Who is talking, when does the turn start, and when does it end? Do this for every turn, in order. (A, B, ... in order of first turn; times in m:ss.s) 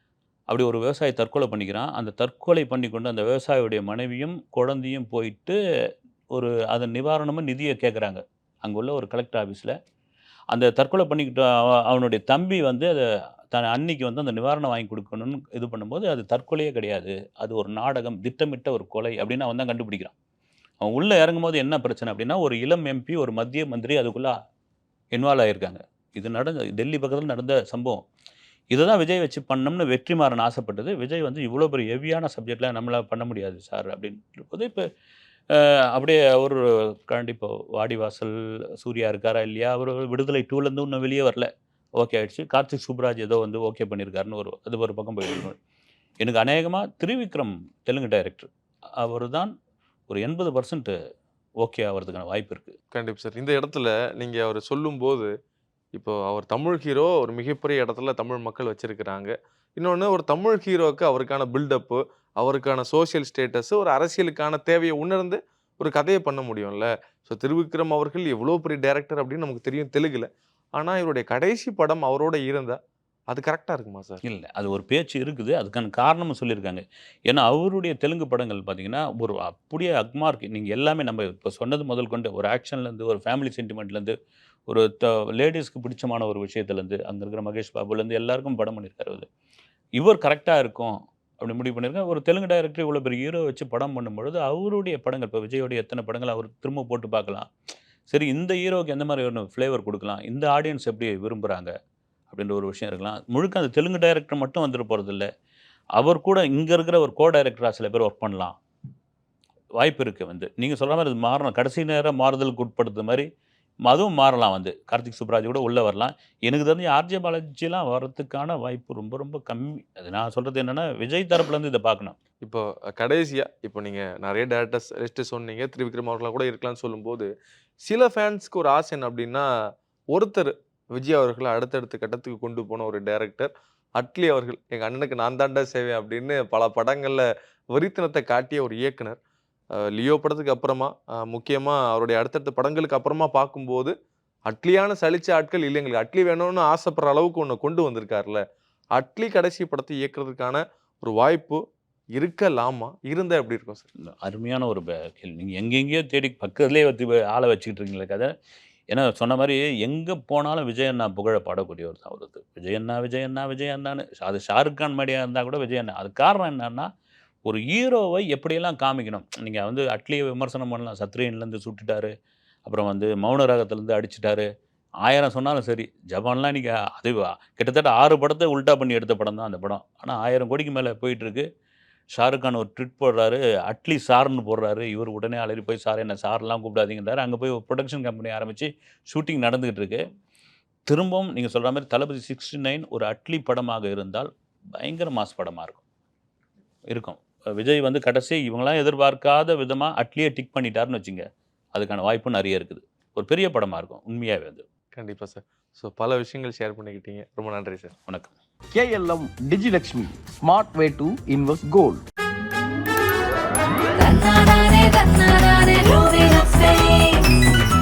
0:00.5-0:05.6 A
0:06.3-0:09.7 A
0:10.5-0:20.1 A
0:20.8-0:24.3 A
0:25.1-0:28.0 A
0:28.7-0:34.8 A
0:35.5-0:45.6 A
0:46.2-0:48.5 A
0:49.0-0:49.5 A
0:50.1-0:50.9 A
0:51.6-0:52.7 A
0:52.9-0:55.3 B
0:55.9-1:12.8 B
1:13.3-1:14.2 B
1:14.2-1:24.1 A
1:24.7-1:29.3 A
1:30.0-1:37.5 A
1:38.1-1:41.7 A
1:42.3-1:45.3 A
1:46.0-1:48.6 A
1:49.8-1:53.3 A
1:53.8-2:02.2 A
2:02.4-2:07.3 B
2:07.8-2:09.5 B
2:10.1-2:19.2 B
2:19.9-2:23.9 B
2:24.5-2:28.4 B
2:28.9-2:31.6 B
2:32.2-2:33.9 B
2:34.1-2:38.3 A
2:38.9-2:46.9 A
2:47.4-2:52.1 A
2:52.6-2:54.5 A
2:55.0-3:01.4 A
3:02.1-3:10.0 A
3:10.9-3:15.8 A
3:16.9-3:24.6 A
3:25.0-3:27.9 B
3:28.1-3:28.3 A
3:28.7-3:32.0 C
3:34.0-3:37.4 D